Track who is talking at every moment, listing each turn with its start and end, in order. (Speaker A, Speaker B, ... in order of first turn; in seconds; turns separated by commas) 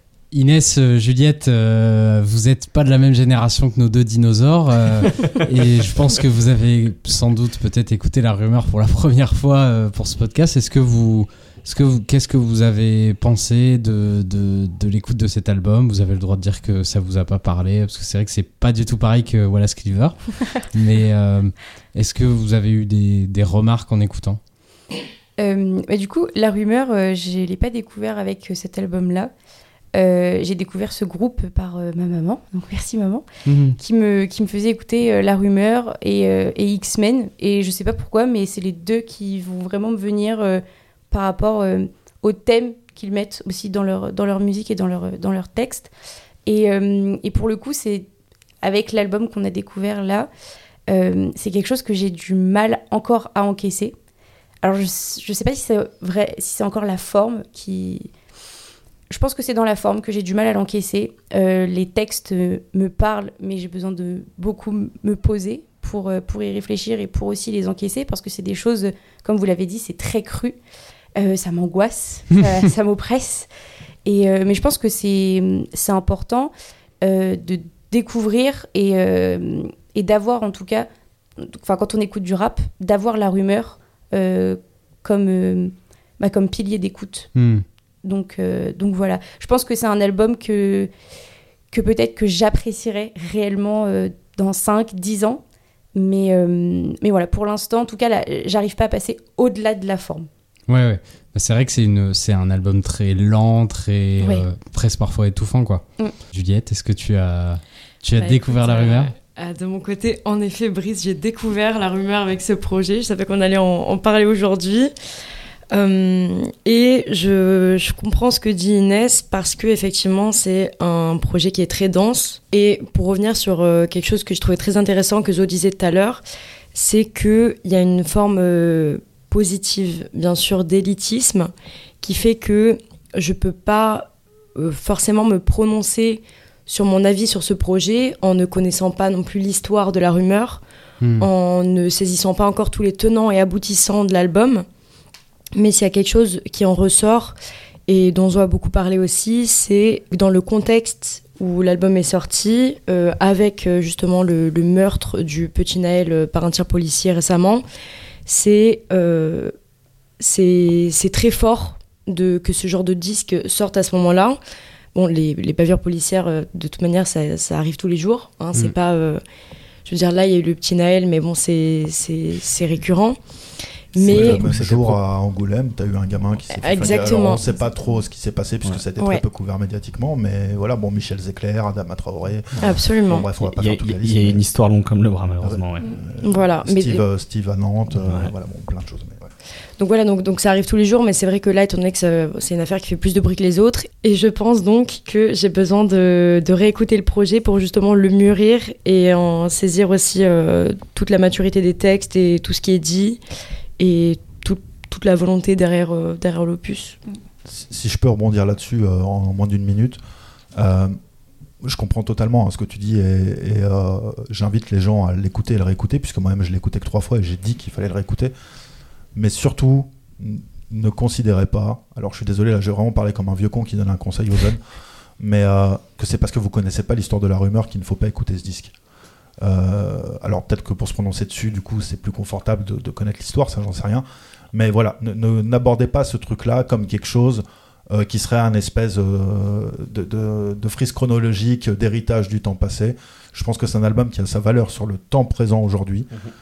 Speaker A: 0.3-24.4, Speaker B: 25.4-29.3, Speaker B: 29.9-33.2, Speaker A: 33.5-33.8, Speaker B: 33.8-45.9, Speaker B: 46.5-48.0, Speaker B: 48.6-50.3, Speaker B: 50.9-53.9, Speaker B: 54.6-58.1, Speaker B: 59.1-70.5, Speaker B: 71.1-73.5, Speaker B: 74.0-80.9, Speaker B: 81.4-87.3, Speaker A: 87.3-87.6, Speaker B: 88.0-90.9, Speaker B: 91.7-95.4, Speaker B: 95.9-100.3, Speaker A: 100.7-109.1, Speaker B: 104.2-104.4, Speaker C: 108.2-114.9, Speaker C: 115.7-131.5, Speaker C: 132.0-140.6, Speaker A: 141.0-141.3, Speaker C: 141.2-144.7, Speaker C: 145.5-147.3, Speaker C: 147.9-157.6, Speaker C: 158.2-159.5, Speaker C: 160.2-164.4, Speaker C: 164.9-169.2, Speaker C: 169.8-173.2, Speaker C: 173.9-174.5, Speaker D: 174.0-184.4, Speaker E: 174.0-175.0, Speaker C: 176.5-177.4, Speaker C: 182.6-183.2, Speaker E: 183.1-185.9, Speaker D: 185.4-189.3, Speaker C: 186.2-187.0, Speaker E: 188.1-188.3, Speaker C: 189.8-203.2, Speaker C: 203.8-207.0, Speaker D: 207.5-210.0, Speaker D: 210.6-210.9, Speaker D: 211.6-218.3, Speaker D: 219.1-224.6, Speaker D: 225.2-228.7, Speaker D: 229.4-246.1